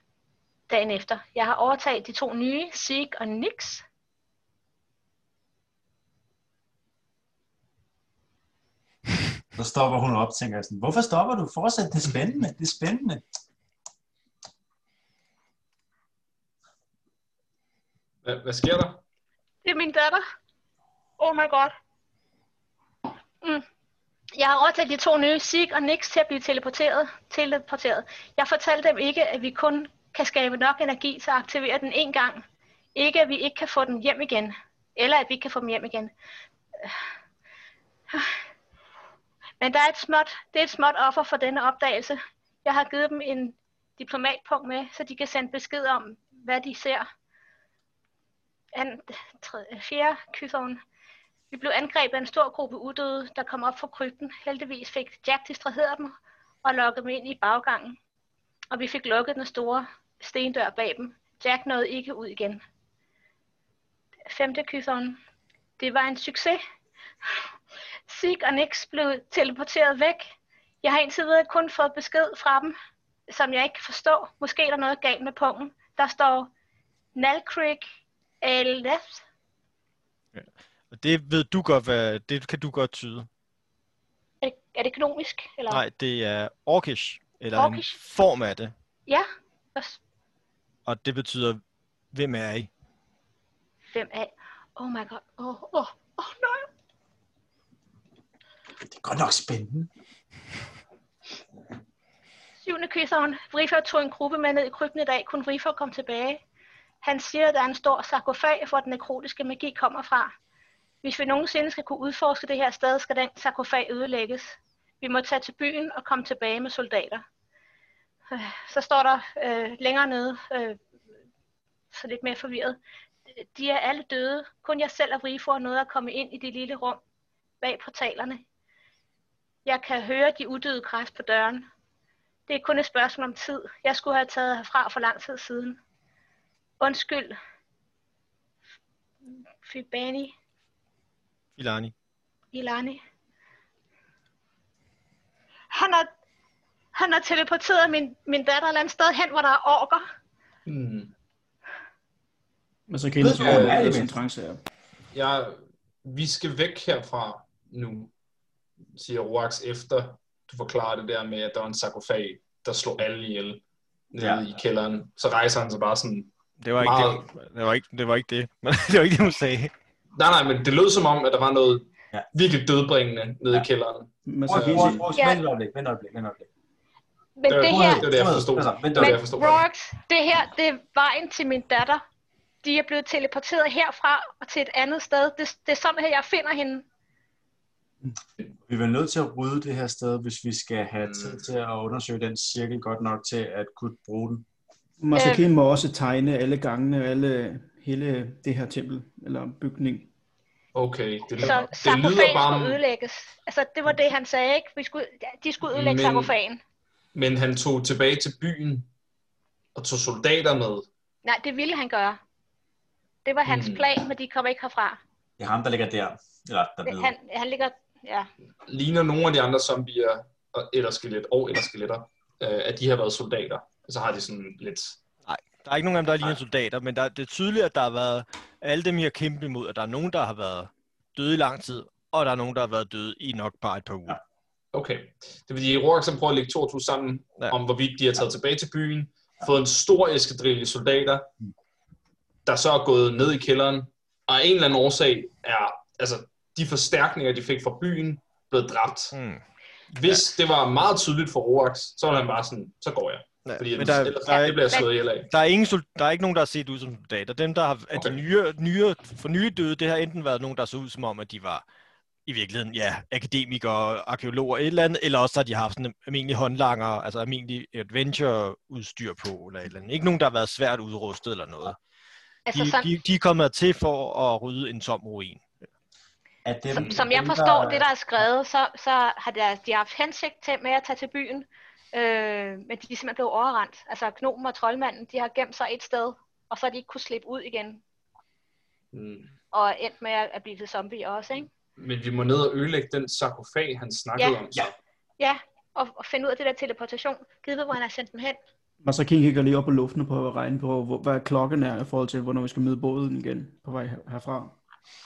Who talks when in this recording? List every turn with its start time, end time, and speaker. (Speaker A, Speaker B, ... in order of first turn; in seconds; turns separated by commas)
Speaker A: 0.7-3.8, Speaker B: 9.6-13.2, Speaker C: 18.2-19.0, Speaker A: 19.6-20.2, Speaker A: 21.2-21.7, Speaker A: 24.3-32.4, Speaker A: 32.9-36.1, Speaker A: 38.1-38.4, Speaker A: 39.6-47.1, Speaker A: 48.7-50.8, Speaker A: 51.5-58.0, Speaker A: 58.7-62.6, Speaker A: 64.3-65.2, Speaker A: 65.8-66.6, Speaker A: 68.1-70.2, Speaker A: 70.8-72.7, Speaker A: 73.3-76.5, Speaker A: 77.1-77.8, Speaker A: 78.4-79.2, Speaker D: 80.3-83.3, Speaker A: 84.4-85.8, Speaker D: 85.7-88.7, Speaker A: 87.5-88.0, Speaker A: 89.1-90.0, Speaker D: 90.8-91.6, Speaker D: 92.1-92.7, Speaker A: 93.9-96.7, Speaker B: 98.8-99.9, Speaker A: 102.6-106.4, Speaker A: 107.0-110.3, Speaker A: 111.0-117.2, Speaker A: 118.3-120.8, Speaker A: 121.9-122.8, Speaker A: 123.3-127.0, Speaker A: 127.6-128.4, Speaker A: 129.6-131.7, Speaker A: 132.5-135.8, Speaker A: 136.8-137.3, Speaker A: 139.6-140.3, Speaker D: 141.6-141.9, Speaker A: 142.5-143.0, Speaker A: 145.7-146.1, Speaker A: 146.9-150.0, Speaker C: 150.7-151.1, Speaker E: 152.9-154.6, Speaker B: 153.2-154.2, Speaker C: 153.4-154.0, Speaker C: 155.1-158.1, Speaker C: 158.9-167.3, Speaker B: 164.2-164.4, Speaker D: 166.6-169.7, Speaker C: 170.2-174.1, Speaker E: 174.2-175.1, Speaker B: 174.5-176.5, Speaker C: 174.6-174.9, Speaker A: 177.4-178.1, Speaker C: 177.5-179.6, Speaker B: 177.6-179.2, Speaker A: 178.9-182.0, Speaker A: 182.6-186.8, Speaker B: 188.7-194.4, Speaker C: 191.0-191.4, Speaker E: 195.0-200.1, Speaker A: 195.1-195.5, Speaker C: 200.7-202.8, Speaker A: 201.4-206.6, Speaker C: 205.6-206.3, Speaker C: 207.1-208.9, Speaker C: 209.7-210.8, Speaker A: 211.2-212.2, Speaker A: 213.2-215.0, Speaker C: 213.4-213.8, Speaker B: 215.4-217.1, Speaker A: 216.8-218.3, Speaker C: 218.7-225.0, Speaker D: 225.2-234.2, Speaker C: 234.7-241.3, Speaker C: 242.4-249.1, Speaker D: 249.1-249.4, Speaker C: 249.9-255.3, Speaker D: 253.4-261.6, Speaker D: 262.2-271.8, Speaker A: 272.5-272.9, Speaker D: 272.5-275.4, Speaker B: 276.4-277.9, Speaker A: 276.7-287.8, Speaker C: 276.8-277.0, Speaker C: 288.9-289.3, Speaker A: 289.5-291.5, Speaker C: 291.8-294.7, Speaker A: 295.2-298.4, Speaker E: 298.8-304.6